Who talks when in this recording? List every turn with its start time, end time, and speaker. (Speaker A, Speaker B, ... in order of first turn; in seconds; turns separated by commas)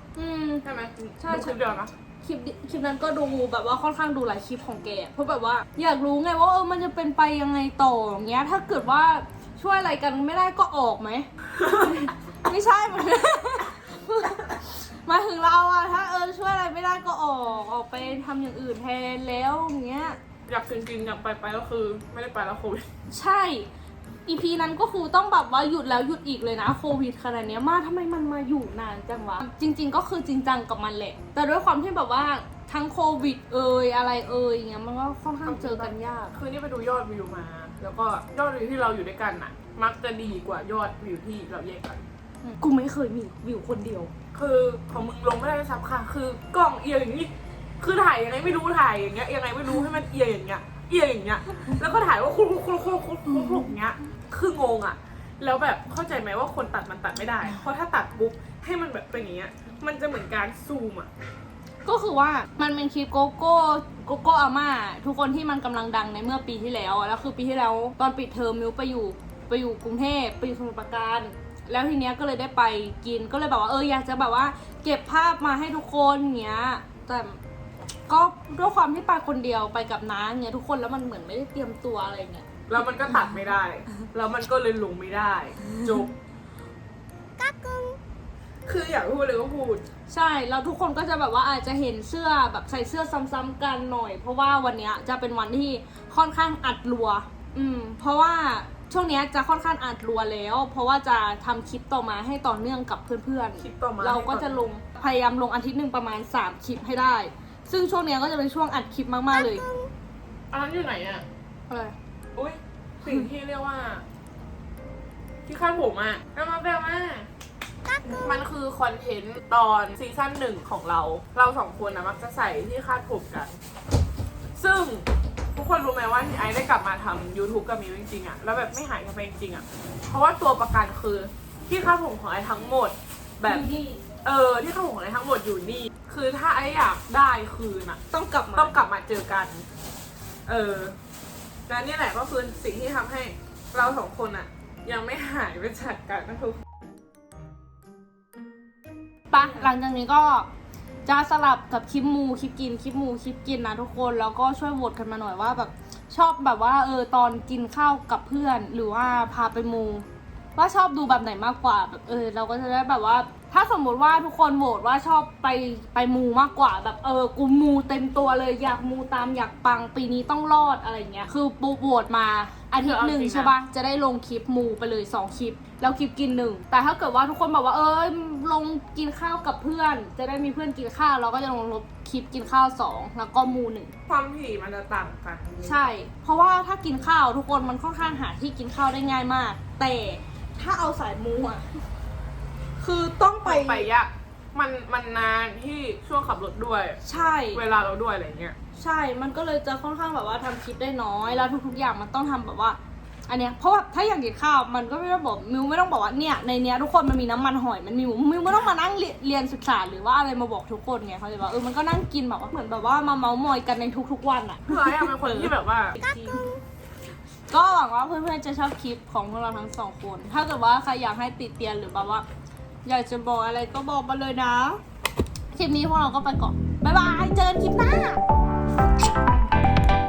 Speaker A: 0.1-0.6, Speaker B: 0.6-1.9, Speaker A: 1.2-1.6, Speaker A: 2.2-20.2, Speaker B: 20.5-22.9, Speaker A: 23.1-23.7, Speaker A: 24.3-36.4, Speaker B: 35.5-42.0, Speaker A: 42.4-44.1, Speaker B: 44.3-61.1, Speaker A: 53.4-53.6, Speaker A: 61.8-77.4, Speaker A: 78.1-82.5, Speaker B: 82.7-86.1, Speaker B: 88.6-89.8, Speaker A: 90.1-109.7, Speaker B: 103.6-104.6, Speaker B: 110.5-111.2, Speaker A: 111.7-111.9, Speaker B: 112.3-114.0, Speaker B: 115.5-117.3, Speaker B: 118.0-123.6, Speaker B: 124.5-133.7, Speaker A: 133.4-134.0, Speaker B: 134.2-138.0, Speaker A: 138.1-138.8, Speaker B: 138.5-139.7, Speaker B: 140.4-140.9, Speaker B: 141.7-146.6, Speaker A: 149.3-150.5, Speaker A: 151.1-183.9, Speaker B: 172.8-173.5, Speaker B: 184.1-185.9, Speaker A: 185.6-191.8, Speaker A: 192.8-193.9, Speaker B: 193.4-197.0, Speaker A: 197.0-197.6, Speaker B: 197.5-198.6, Speaker A: 198.8-216.6, Speaker B: 214.7-216.0, Speaker A: 217.5-222.2, Speaker A: 222.8-224.8, Speaker A: 225.5-228.2